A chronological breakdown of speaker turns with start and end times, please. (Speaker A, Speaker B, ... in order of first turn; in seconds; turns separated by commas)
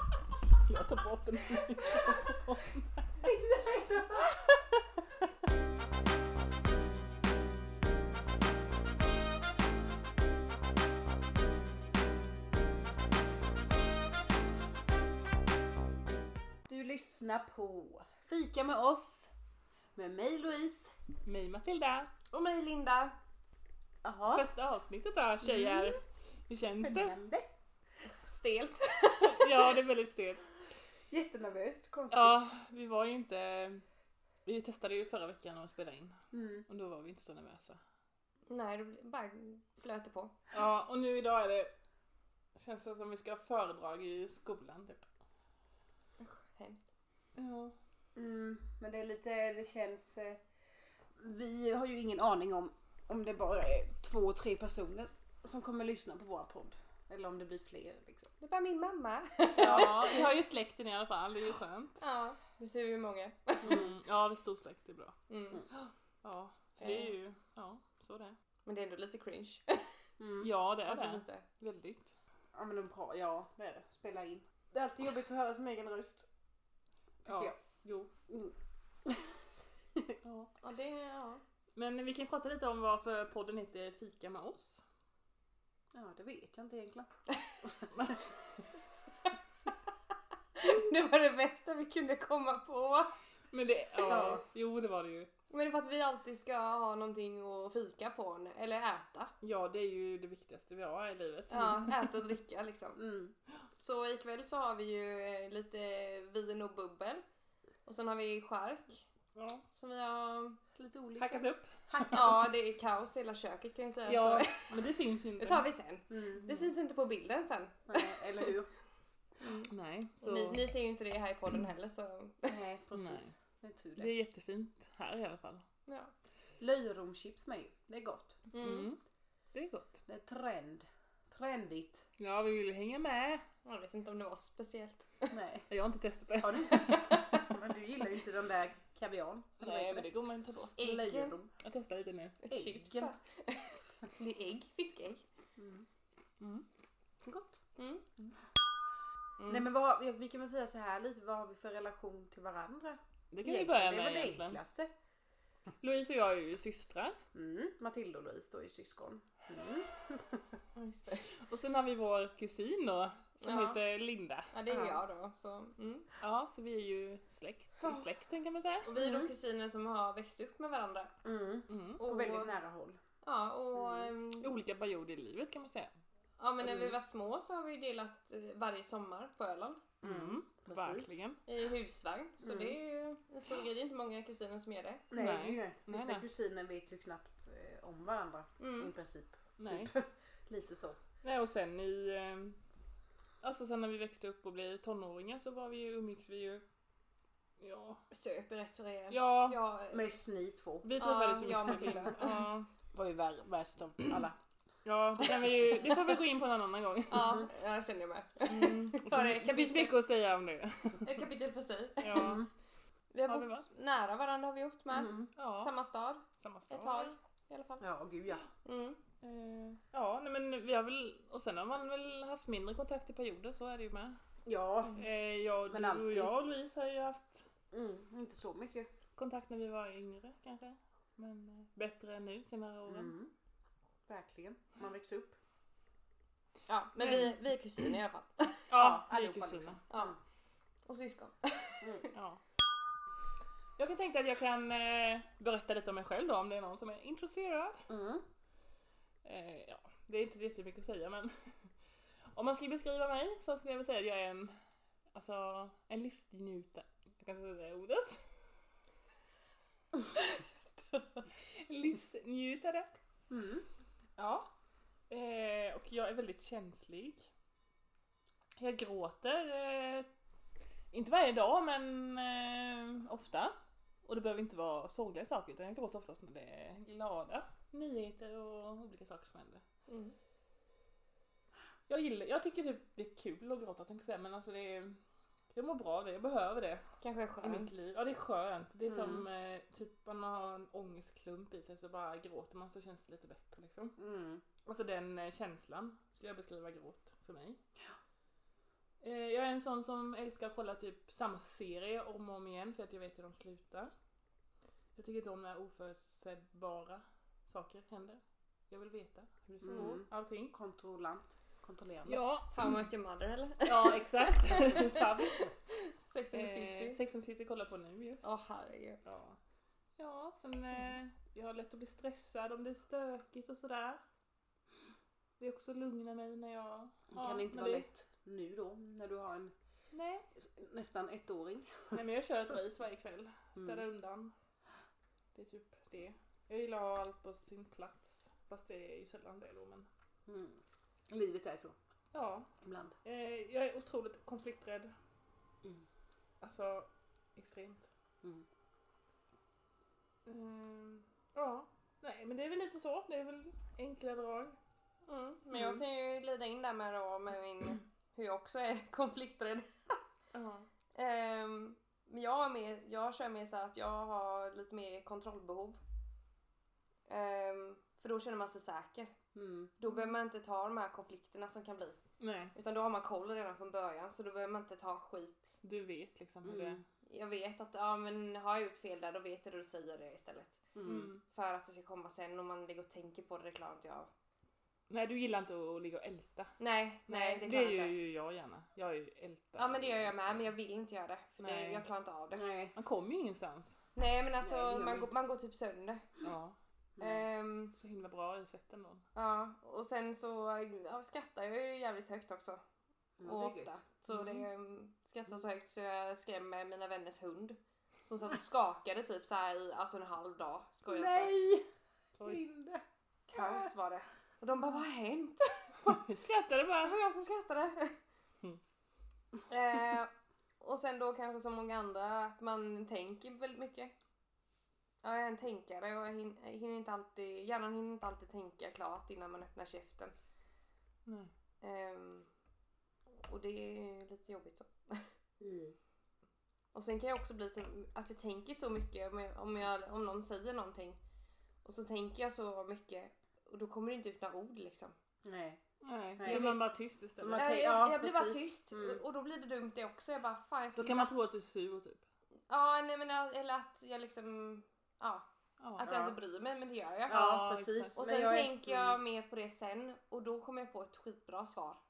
Speaker A: 0.6-3.1, Speaker B: 3.2-4.5, Speaker B: 16.7-19.3, Speaker B: 19.9-20.9, Speaker A: 21.3-22.1, Speaker C: 22.3-23.2, Speaker B: 24.0-24.5, Speaker A: 24.3-27.1, Speaker B: 25.5-25.9, Speaker B: 26.6-27.5, Speaker C: 28.1-29.7, Speaker A: 29.2-30.4, Speaker B: 31.1-32.4, Speaker A: 32.1-33.9, Speaker A: 34.5-37.8, Speaker B: 36.3-36.7, Speaker C: 38.5-40.4, Speaker A: 40.5-41.7, Speaker A: 42.6-45.1, Speaker C: 46.2-46.9, Speaker A: 47.4-47.8, Speaker B: 48.1-50.4, Speaker B: 51.2-58.3, Speaker C: 58.4-60.2, Speaker A: 59.6-62.0, Speaker B: 59.6-60.3, Speaker C: 62.0-63.9, Speaker A: 63.6-65.2, Speaker B: 63.6-64.0, Speaker C: 65.3-65.7, Speaker A: 65.7-68.4, Speaker C: 66.8-67.1, Speaker C: 68.7-69.9, Speaker B: 70.2-70.5, Speaker A: 70.4-72.1, Speaker C: 70.9-71.5, Speaker B: 72.5-76.3, Speaker A: 77.2-78.1, Speaker B: 77.3-78.5, Speaker B: 79.0-79.4, Speaker A: 80.2-80.5, Speaker C: 80.6-81.4, Speaker A: 81.8-84.8, Speaker B: 85.9-87.1, Speaker B: 87.6-88.4, Speaker C: 90.6-93.1, Speaker A: 93.5-95.3, Speaker B: 94.0-94.4, Speaker C: 94.1-94.4, Speaker C: 95.5-99.3, Speaker A: 99.4-102.2, Speaker C: 101.5-103.0, Speaker B: 103.0-103.3, Speaker C: 103.8-107.2, Speaker C: 107.9-109.1, Speaker A: 109.3-109.7, Speaker C: 109.7-110.6, Speaker B: 110.8-112.4, Speaker A: 111.2-112.2, Speaker C: 112.1-114.8, Speaker A: 114.1-115.7, Speaker C: 115.4-118.5, Speaker B: 116.1-116.6, Speaker B: 117.9-118.7, Speaker C: 119.4-119.7, Speaker A: 119.7-120.7, Speaker C: 120.2-122.5, Speaker B: 122.5-124.1, Speaker A: 122.9-123.3, Speaker A: 124.0-125.7, Speaker C: 125.9-126.1, Speaker B: 126.6-128.4, Speaker C: 128.5-128.9, Speaker A: 128.6-129.0, Speaker A: 129.5-130.0, Speaker B: 130.1-132.1, Speaker A: 132.2-133.5, Speaker C: 133.7-135.3, Speaker B: 135.3-135.7, Speaker A: 135.7-137.1, Speaker B: 136.4-140.1, Speaker C: 136.9-137.4, Speaker A: 139.6-140.9, Speaker C: 140.8-141.4, Speaker B: 140.8-141.5, Speaker A: 141.6-142.4, Speaker C: 142.4-145.2, Speaker B: 142.5-143.1, Speaker B: 145.6-145.9, Speaker A: 146.4-146.7, Speaker B: 147.2-147.6, Speaker C: 147.8-148.1, Speaker C: 149.4-149.7, Speaker B: 149.5-154.9, Speaker A: 153.3-154.6, Speaker A: 155.8-157.2, Speaker B: 157.3-160.6, Speaker C: 160.8-161.3, Speaker A: 161.4-164.5, Speaker C: 163.4-163.8, Speaker C: 164.5-166.1, Speaker B: 164.7-165.0, Speaker A: 166.2-168.9, Speaker C: 167.8-168.1, Speaker C: 168.8-171.1, Speaker B: 169.0-169.3, Speaker B: 171.2-173.0, Speaker A: 171.7-172.0, Speaker C: 172.0-172.6, Speaker C: 173.2-174.5, Speaker B: 173.8-174.1, Speaker A: 174.4-175.9, Speaker C: 176.4-179.8, Speaker B: 176.6-177.0, Speaker B: 180.0-181.2, Speaker A: 180.0-181.4, Speaker C: 181.5-185.1, Speaker B: 182.4-182.8, Speaker B: 185.1-191.0, Speaker A: 185.2-186.2, Speaker C: 188.6-188.9, Speaker A: 189.6-189.9, Speaker A: 191.2-192.6, Speaker A: 193.4-196.6, Speaker A: 197.6-198.0, Speaker C: 198.1-200.1, Speaker A: 199.1-199.6, Speaker B: 199.9-200.9, Speaker A: 200.8-202.7, Speaker C: 201.0-202.4, Speaker B: 202.9-204.4, Speaker A: 204.8-207.4, Speaker C: 207.1-209.9, Speaker B: 207.1-207.5, Speaker A: 208.5-211.2, Speaker C: 211.0-212.4, Speaker A: 212.0-212.4, Speaker B: 212.2-212.5, Speaker C: 213.1-217.8, Speaker A: 213.2-213.7, Speaker B: 214.9-215.3, Speaker A: 215.4-215.7, Speaker A: 216.4-217.2, Speaker B: 217.8-218.4, Speaker C: 218.6-219.0, Speaker A: 219.2-224.2, Speaker B: 224.4-225.0, Speaker A: 224.9-227.5, Speaker B: 225.7-226.3, Speaker B: 227.7-228.9, Speaker A: 229.2-233.2, Speaker B: 232.9-233.3, Speaker B: 234.1-235.4, Speaker C: 236.7-238.7, Speaker A: 237.0-237.4, Speaker A: 238.7-239.8, Speaker B: 238.7-240.2, Speaker C: 239.9-240.2, Speaker C: 240.9-242.1, Speaker B: 241.8-242.1, Speaker A: 242.1-242.4, Speaker A: 243.8-247.9, Speaker B: 247.9-248.3, Speaker A: 249.2-251.7, Speaker A: 252.3-254.6, Speaker A: 255.1-258.2, Speaker A: 261.4-262.9, Speaker B: 263.3-263.7, Speaker A: 264.2-264.5, Speaker A: 265.1-267.3, Speaker A: 268.6-270.1, Speaker A: 270.9-273.5, Speaker A: 274.1-279.6, Speaker C: 279.9-280.1, Speaker A: 281.9-285.0, Speaker A: 285.5-286.8, Speaker C: 287.0-287.8, Speaker A: 287.4-294.0, Speaker B: 288.9-289.3, Speaker B: 294.0-294.4, Speaker A: 294.6-297.6, Speaker A: 299.0-303.9, Speaker A: 305.0-310.5, Speaker B: 309.6-312.2, Speaker A: 312.1-312.5, Speaker C: 312.5-317.0, Speaker A: 313.7-315.6, Speaker A: 316.3-318.3, Speaker C: 318.2-319.0, Speaker A: 319.0-319.4, Speaker A: 320.0-324.0, Speaker A: 325.4-327.9, Speaker B: 327.1-329.5, Speaker A: 329.9-330.3, Speaker B: 330.4-332.0, Speaker A: 331.9-334.3, Speaker B: 333.6-333.8, Speaker A: 335.4-339.9, Speaker B: 340.3-341.8, Speaker A: 342.1-342.5, Speaker B: 342.6-343.0, Speaker A: 343.0-344.9, Speaker A: 346.4-347.9, Speaker A: 350.3-354.6, Speaker C: 355.1-360.0, Speaker A: 360.3-360.7, Speaker C: 360.9-365.8, Speaker C: 367.1-369.1, Speaker B: 369.4-369.7, Speaker C: 369.8-372.0, Speaker A: 372.2-372.6, Speaker C: 372.5-375.6, Speaker A: 375.6-376.8, Speaker B: 376.4-376.8, Speaker C: 377.1-380.7, Speaker B: 380.7-381.1, Speaker A: 380.9-381.2, Speaker C: 381.3-384.1, Speaker A: 384.9-386.6, Speaker C: 386.6-387.9, Speaker A: 387.1-390.5, Speaker C: 389.6-392.5, Speaker A: 391.4-391.9, Speaker B: 392.3-392.8, Speaker A: 392.8-393.8, Speaker C: 394.0-396.1, Speaker B: 394.4-395.1, Speaker A: 396.2-396.6, Speaker B: 397.0-397.3, Speaker C: 397.0-397.7, Speaker A: 397.7-399.0, Speaker C: 399.1-402.6, Speaker B: 403.2-403.8, Speaker C: 403.2-411.4, Speaker A: 404.1-404.4, Speaker B: 410.9-411.6, Speaker A: 412.2-412.4, Speaker B: 412.2-413.7, Speaker C: 413.3-415.9, Speaker A: 415.9-417.0, Speaker C: 416.8-418.0, Speaker C: 419.5-423.9, Speaker C: 425.0-430.1, Speaker A: 431.1-431.3, Speaker C: 431.6-432.3, Speaker C: 433.1-435.1, Speaker B: 435.4-435.8, Speaker C: 436.7-441.0, Speaker C: 441.6-444.9, Speaker B: 445.2-445.6, Speaker A: 445.8-447.5, Speaker B: 446.2-446.6, Speaker C: 446.2-446.6, Speaker B: 447.2-449.0, Speaker C: 447.4-451.1, Speaker A: 450.8-452.0, Speaker C: 452.5-455.3, Speaker A: 455.6-455.9, Speaker C: 455.8-457.4, Speaker B: 455.8-456.2, Speaker B: 457.1-459.0, Speaker A: 457.1-458.0, Speaker C: 458.0-461.8